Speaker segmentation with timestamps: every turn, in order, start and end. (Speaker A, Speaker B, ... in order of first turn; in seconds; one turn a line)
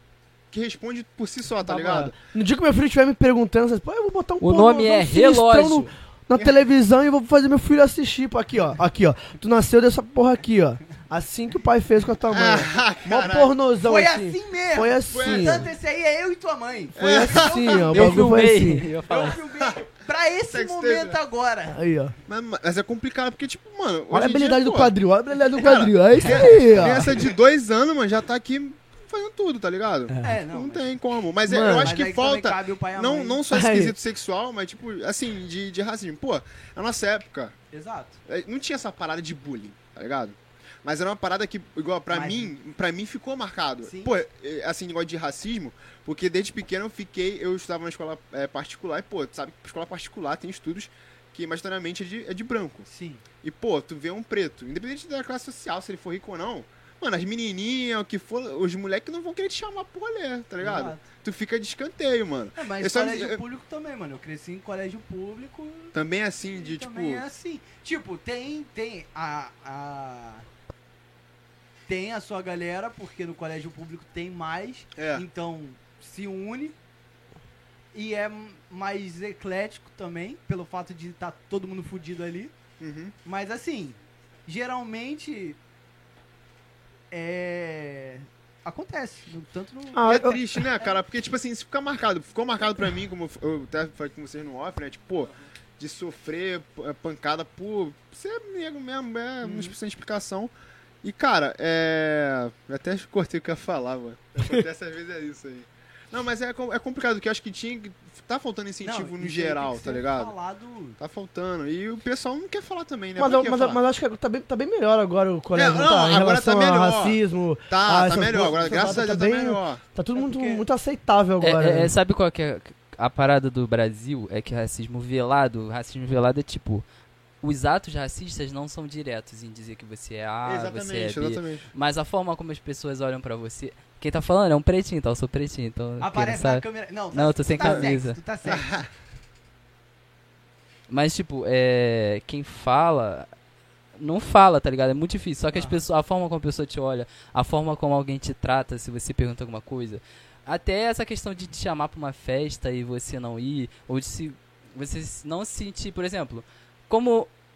Speaker A: 0.5-2.1
Speaker B: 1.6-15.7
Speaker C: 4.4-5.9
Speaker A: 12.3-13.5
Speaker D: 13.8-18.3
Speaker A: 15.1-15.7
Speaker B: 16.9-18.9
Speaker A: 17.0-17.9
Speaker C: 17.9-19.4
Speaker D: 19.1-21.8
Speaker A: 20.5-21.2
Speaker B: 21.7-22.1
Speaker A: 22.3-24.9
Speaker B: 24.1-27.1
Speaker A: 25.5-37.5
Speaker B: 30.1-30.3
Speaker D: 30.2-30.9
Speaker B: 31.4-32.0
Speaker D: 31.7-33.4
Speaker B: 33.5-33.9
Speaker D: 37.7-38.2
Speaker A: 38.3-52.9
Speaker D: 42.1-42.5
Speaker D: 43.8-44.1
Speaker D: 52.9-53.2
Speaker A: 53.4-63.4
Speaker D: 60.6-61.0
Speaker D: 62.5-65.9
Speaker A: 65.9-67.2
Speaker D: 66.5-70.5
Speaker D: 71.9-76.7
Speaker A: 75.0-75.2
Speaker D: 77.9-82.5
Speaker A: 82.8-83.1
Speaker D: 83.2-85.6
Speaker D: 87.1-90.0
Speaker B: 89.9-90.6
Speaker A: 90.0-110.3
Speaker D: 99.4-99.8
Speaker D: 108.8-111.0
Speaker A: 111.0-113.8
Speaker B: 113.2-121.9
Speaker A: 115.5-119.8
Speaker D: 120.1-120.6
Speaker C: 121.4-126.8
Speaker C: 127.4-138.2
Speaker A: 130.4-131.7
Speaker D: 136.0-138.7
Speaker A: 137.6-137.9
Speaker A: 138.4-138.9
Speaker C: 140.9-143.3
Speaker C: 144.0-157.3
Speaker D: 145.5-145.8